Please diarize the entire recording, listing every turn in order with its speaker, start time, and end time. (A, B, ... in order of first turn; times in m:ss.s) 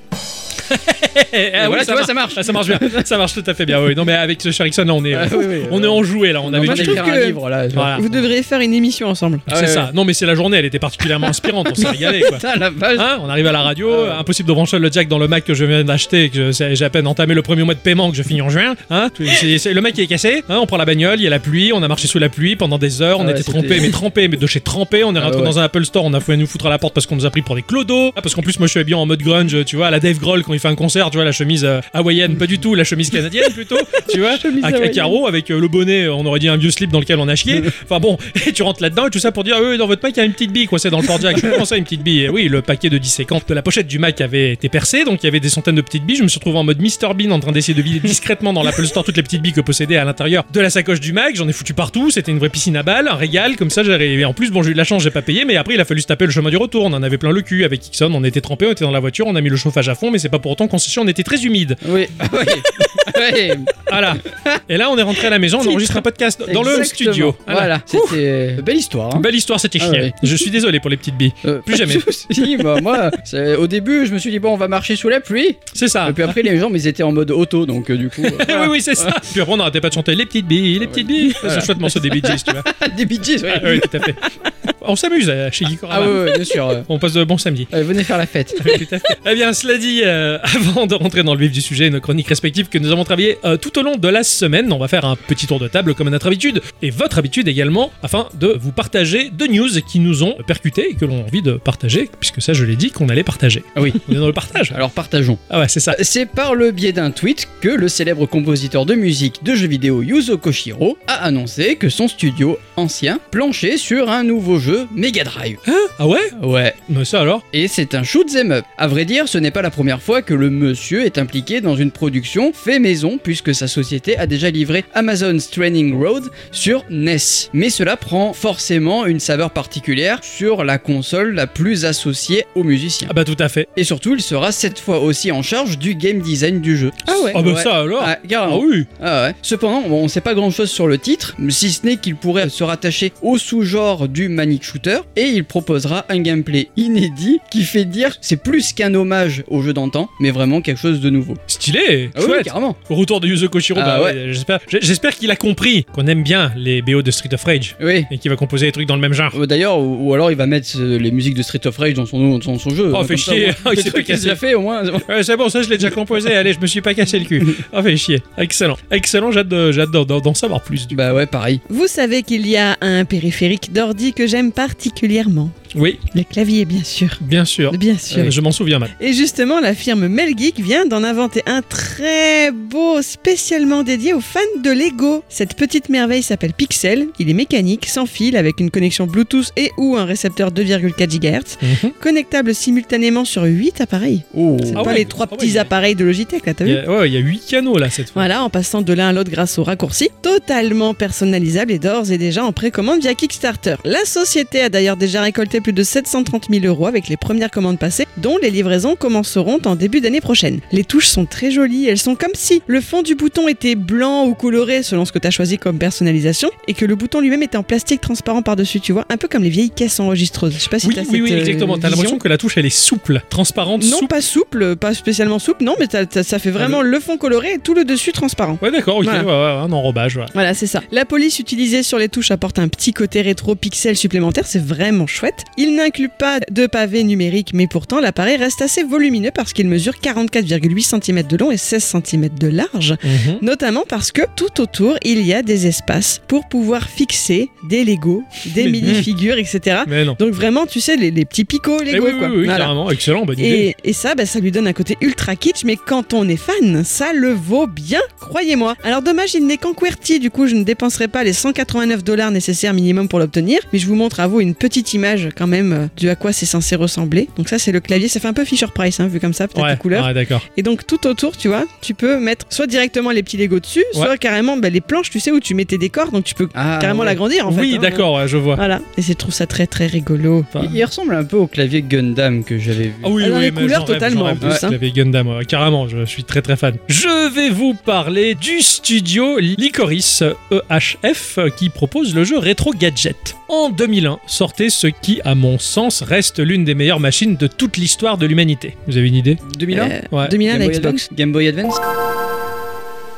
0:00.7-0:07.1 A
0:01.6-0:03.1 B
0:05.1-0:08.3 B
0:06.6-0:07.4 C
0:07.7-0:08.0 A
0:08.0-0:09.5 C
0:09.5-0:09.9 B
0:09.5-1:01.8 A
0:11.2-0:13.1 B
0:13.9-0:14.2 B
0:23.2-0:24.0 B
0:25.2-0:25.6 B
0:34.3-0:35.2 C
1:01.8-1:03.7 B
1:02.6-1:03.1 A
1:03.8-1:08.2 A
1:04.3-1:04.6 B
1:05.6-1:09.3 B
1:09.2-1:12.4 A
1:09.8-1:10.4 B
1:11.4-1:19.2 B
1:15.7-1:16.4 A
1:18.2-1:22.7 A
1:20.8-1:24.1 B
1:23.5-1:24.2 A
1:24.8-1:26.3 A
1:25.9-1:26.9 B
1:26.8-1:27.8 A
1:27.7-1:28.8 B
1:28.6-1:44.8 A
1:43.8-1:44.0 B
1:44.7-1:55.6 B
1:45.5-1:46.0 A
1:55.6-1:56.4 A
1:56.4-1:56.8 B
1:56.9-1:57.4 A
1:57.5-2:13.1 B
2:13.1-2:13.7 A
2:13.8-2:31.4 B
2:17.1-2:17.4 C
2:17.3-2:18.9 A
2:31.5-2:39.4 A
2:32.2-2:32.8 B
2:33.8-2:34.2 B
2:37.8-2:38.1 B
2:39.3-2:45.1 B
2:42.9-2:44.4 A
2:45.1-2:51.0 A
2:50.9-2:51.6 B
2:51.7-2:55.5 C
2:55.7-2:56.0 A
2:56.1-2:58.3 C
2:57.2-2:58.9 A
2:58.1-2:58.4 B
2:59.0-3:16.8 C
3:11.6-3:11.9 A
3:14.3-3:15.1 B
3:14.8-3:15.7 A
3:16.6-3:18.3 A
3:18.2-3:42.2 C
3:40.8-3:44.1 A
3:43.8-3:49.3 C
3:48.6-3:50.3 A
3:50.3-4:12.7 C
4:03.0-4:03.4 A
4:08.6-4:09.1 A
4:09.9-4:10.2 A
4:11.9-4:13.7 A
4:13.4-4:40.5 C
4:29.6-4:30.4 A
4:36.5-4:37.2 B
4:37.5-4:38.6 A
4:40.5-4:40.8 A
4:40.6-4:43.2 B
4:43.0-4:59.4 A
4:43.2-4:44.8 C
4:44.4-4:44.7 B
4:59.4-5:01.8 B
4:59.7-5:01.0 C
5:00.1-5:00.4 A